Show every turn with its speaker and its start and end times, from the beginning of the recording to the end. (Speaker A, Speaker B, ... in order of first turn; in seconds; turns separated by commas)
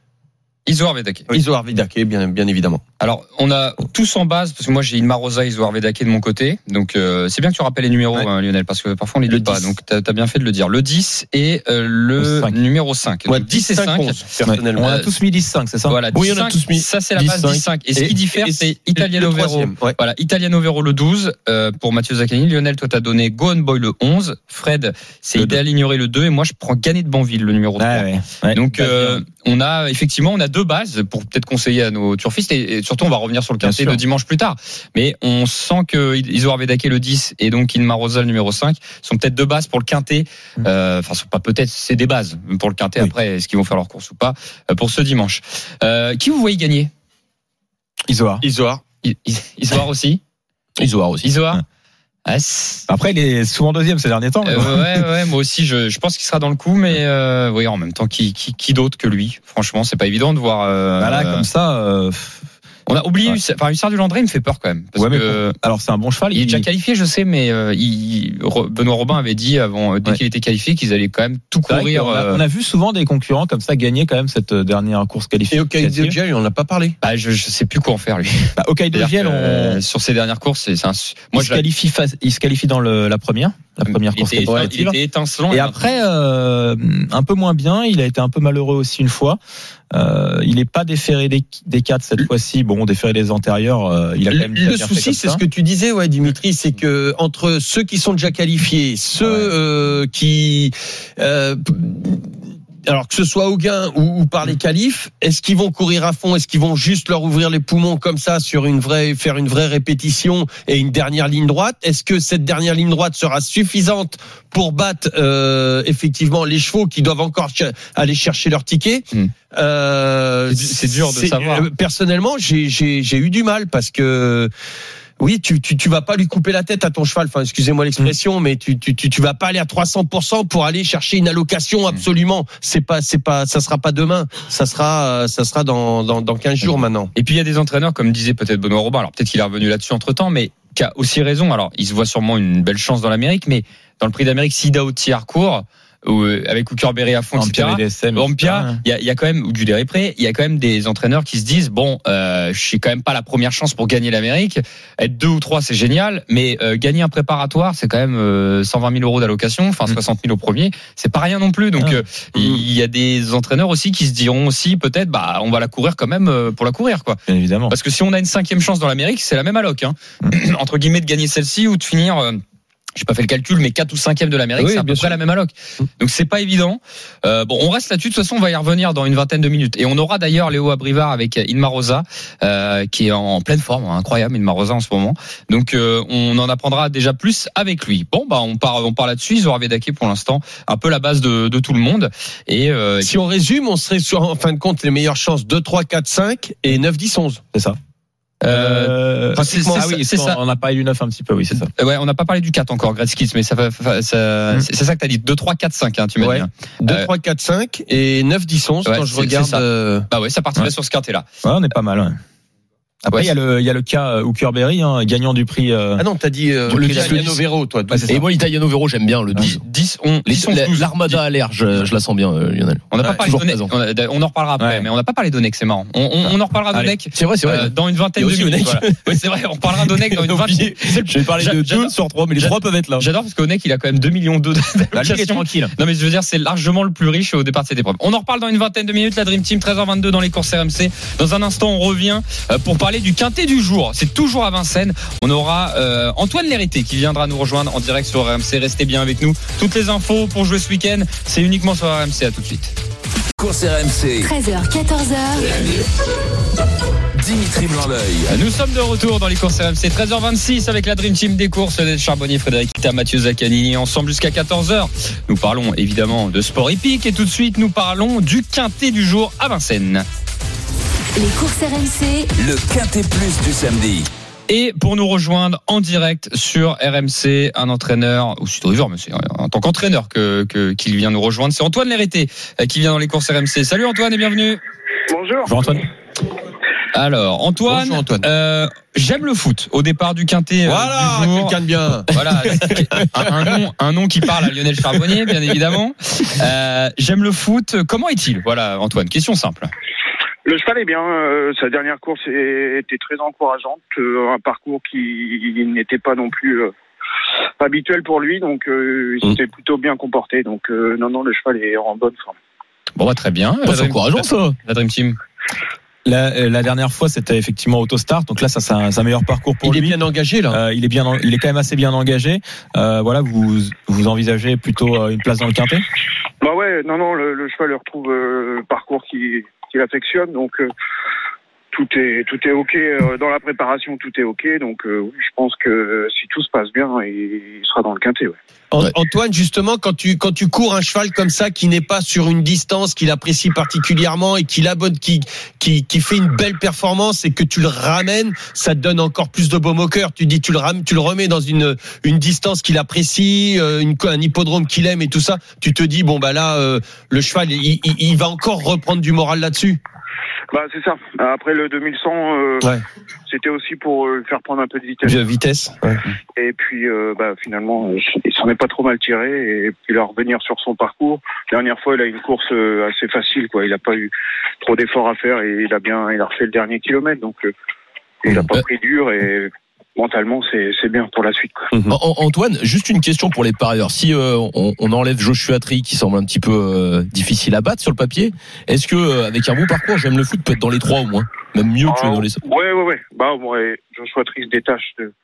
Speaker A: 0.7-1.4, Speaker B: 1.3-2.8, Speaker A: 3.0-14.2, Speaker B: 9.3-9.7, Speaker C: 12.2-12.6, Speaker B: 13.3-14.9, Speaker C: 14.4-16.0, Speaker A: 14.8-15.1, Speaker A: 15.9-46.9, Speaker D: 16.1-17.6, Speaker B: 18.0-20.0, Speaker C: 27.8-29.2, Speaker C: 33.6-34.0, Speaker C: 48.1-48.4, Speaker B: 48.4-48.8, Speaker A: 49.0-50.2, Speaker D: 50.8-51.3, Speaker A: 51.2-51.6, Speaker A: 52.2-52.9, Speaker C: 52.9-55.0, Speaker A: 54.4-61.5, Speaker C: 61.0-62.4, Speaker A: 62.9-65.5, Speaker C: 64.9-66.6, Speaker A: 66.3-72.4, Speaker C: 71.7-76.2, Speaker B: 75.5-77.0, Speaker A: 77.0-81.6, Speaker C: 78.6-79.8, Speaker C: 81.3-85.0, Speaker A: 83.9-85.8, Speaker B: 84.5-84.7, Speaker C: 85.5-89.4, Speaker C: 89.9-95.4, Speaker B: 94.3-102.3, Speaker C: 99.2-99.5, Speaker B: 102.8-124.5, Speaker A: 120.5-121.7, Speaker B: 125.2-137.1, Speaker A: 137.1-172.4, Speaker C: 147.3-148.8, Speaker C: 161.8-162.6, Speaker C: 167.3-167.7, Speaker A: 172.9-193.1, Speaker B: 174.6-175.2, Speaker B: 193.0-197.4, Speaker A: 198.4-200.4, Speaker C: 198.4-201.7, Speaker B: 199.4-199.8, Speaker A: 201.8-207.1, Speaker B: 206.2-210.1, Speaker A: 208.8-211.2, Speaker C: 211.4-212.2, Speaker C: 213.0-216.0, Speaker B: 216.0-218.1, Speaker D: 216.7-217.4, Speaker C: 216.8-217.2, Speaker C: 217.9-218.2, Speaker D: 218.1-219.6, Speaker A: 219.4-221.2, Speaker D: 220.2-223.7, Speaker A: 222.9-252.7, Speaker C: 224.6-224.9, Speaker C: 226.2-226.9, Speaker D: 227.1-229.2, Speaker D: 229.8-233.0, Speaker C: 234.9-235.7, Speaker E: 253.4-254.3, Speaker F: 254.2-255.5, Speaker E: 257.1-258.4, Speaker A: 258.3-270.0, Speaker F: 271.1-272.3, Speaker E: 272.3-274.1, Speaker A: 274.5-284.6, Speaker G: 285.1-285.8, Speaker C: 285.4-285.8, Speaker A: 286.9-291.6, Speaker B: 287.7-288.3, Speaker B: 290.6-292.8, Speaker A: 292.1-299.7, Speaker G: 300.4-306.7, Speaker G: 307.6-312.4, Speaker A: 313.0-315.2, Speaker D: 313.6-314.6, Speaker C: 316.0-320.0, Speaker B: 319.6-320.6, Speaker C: 320.5-325.8, Speaker G: 326.4-330.7, Speaker G: 331.7-338.4, Speaker B: 338.7-359.8, Speaker G: 360.5-362.7, Speaker G: 363.3-365.2, Speaker B: 365.0-366.0, Speaker G: 366.3-377.5, Speaker G: 378.2-381.7, Speaker D: 381.9-392.4, Speaker G: 391.8-395.1